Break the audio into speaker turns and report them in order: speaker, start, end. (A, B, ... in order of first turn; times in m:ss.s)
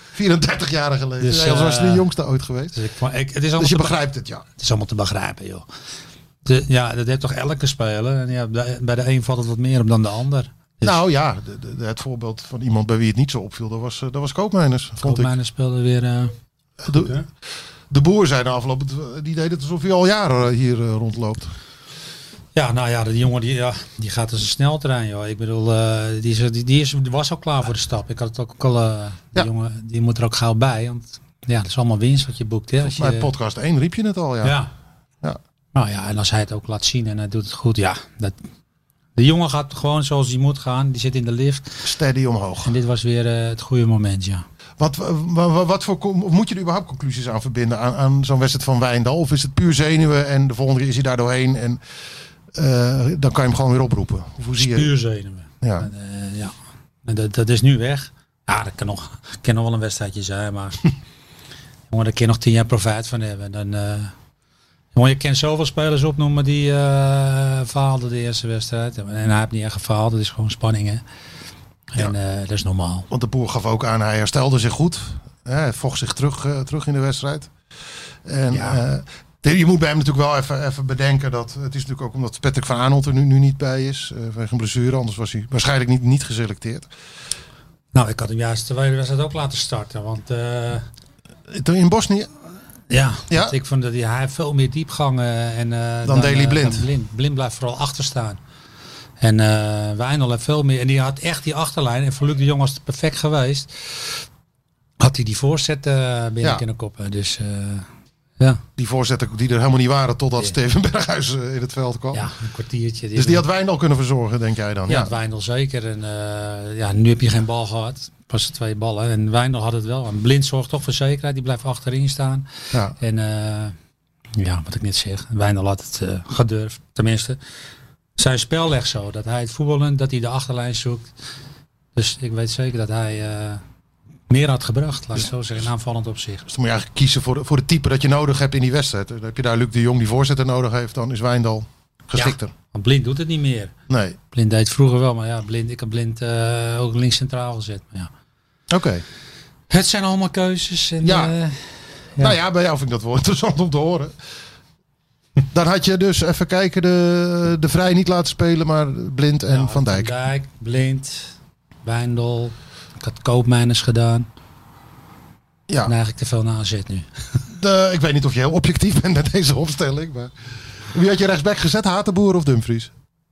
0:00.1-0:02.7 A
0:01.2-0:02.1 B
0:02.7-0:04.0 B
0:03.6-0:04.4 A
0:04.6-0:05.6 B
0:06.4-0:11.0 B
0:10.8-0:15.3 A
0:15.0-0:16.3 B
0:16.8-0:17.2 A
0:17.0-0:17.2 B
0:17.9-0:21.5 A
0:22.5-0:33.3 B
0:32.8-0:34.6 A
0:34.4-0:34.7 B
0:35.7-0:38.4 B
0:39.2-0:41.8 B
0:41.8-0:42.7 A
0:42.6-0:44.4 B
0:44.8-0:51.8 A
0:52.5-0:54.9 A
0:54.6-1:00.9 B
0:55.6-0:55.9 A
1:01.9-1:04.1 B
1:04.9-1:11.0 B
1:11.9-1:13.1 B
1:13.1-1:17.5 A
1:18.2-1:26.9 A
1:18.5-1:18.8 B
1:27.9-1:30.8 B
1:31.5-1:32.3 A
1:32.9-1:38.4 B
1:33.3-1:33.5 A
1:36.0-1:36.9 A
1:39.2-1:44.2 B
1:45.0-1:47.9 B
1:48.8-1:52.2 A
1:52.1-1:53.4 B
1:53.1-1:55.1 A
1:54.9-2:03.7 B
2:04.4-2:07.4 B
2:08.2-2:11.1 B
2:11.9-2:13.6 B
2:14.3-2:16.5 B
2:16.5-2:22.5 A
2:22.1-2:23.7 B
2:23.9-2:24.2 A
2:24.3-2:28.1 B
2:28.7-2:29.0 A
2:29.7-2:31.6 B
2:31.0-2:31.3 A
2:32.2-2:34.1 A
2:35.5-2:40.1 A
2:39.5-2:44.3 B
2:45.8-2:47.1 B
2:47.5-2:50.3 A
2:50.8-2:52.9 A